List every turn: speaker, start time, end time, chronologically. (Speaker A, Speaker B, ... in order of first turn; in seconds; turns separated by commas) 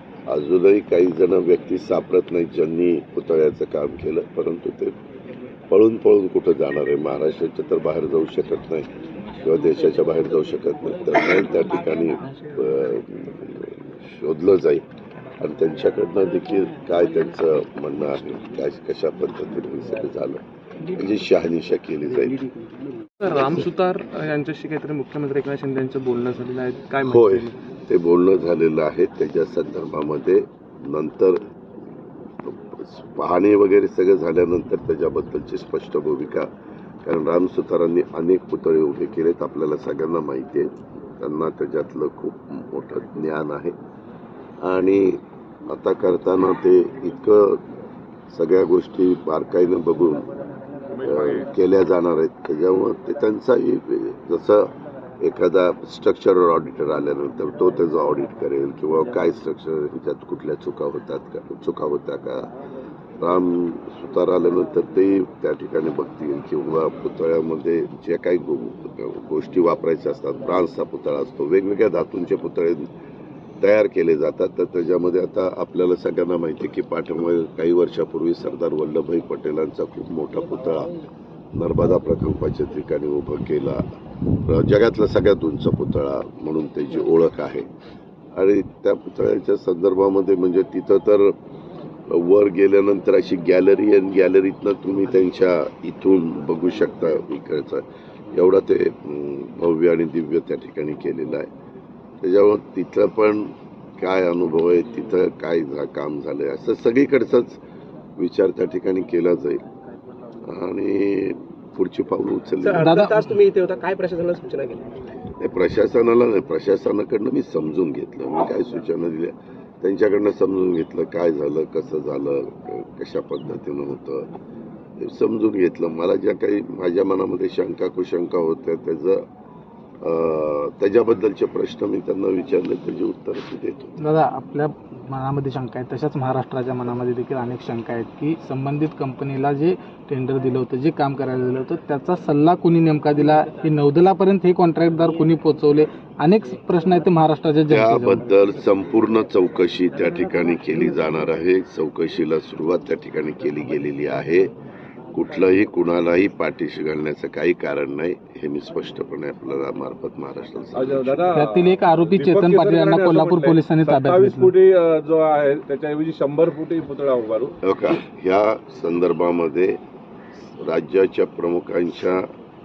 Speaker A: 0.3-4.9, Speaker A: 5.7-8.9, Speaker A: 9.4-14.8, Speaker A: 15.4-22.4, Speaker B: 23.2-27.4, Speaker A: 27.0-31.4, Speaker A: 32.4-36.5, Speaker A: 37.0-43.7, Speaker A: 44.6-47.6, Speaker A: 48.3-50.3, Speaker A: 51.0-62.5, Speaker A: 63.2-72.9, Speaker A: 73.6-81.0, Speaker A: 81.5-83.9, Speaker A: 84.4-87.7, Speaker A: 88.3-91.3, Speaker A: 92.1-101.5, Speaker A: 102.2-107.6, Speaker A: 108.2-109.6, Speaker A: 110.4-112.9, Speaker C: 112.6-114.9, Speaker D: 112.8-113.3, Speaker A: 115.4-124.3, Speaker A: 125.0-129.2, Speaker A: 130.0-133.9, Speaker D: 134.0-148.3, Speaker A: 147.7-154.5, Speaker A: 155.1-161.4, Speaker E: 160.7-167.5, Speaker D: 161.3-164.5, Speaker A: 167.6-169.8, Speaker A: 170.4-172.3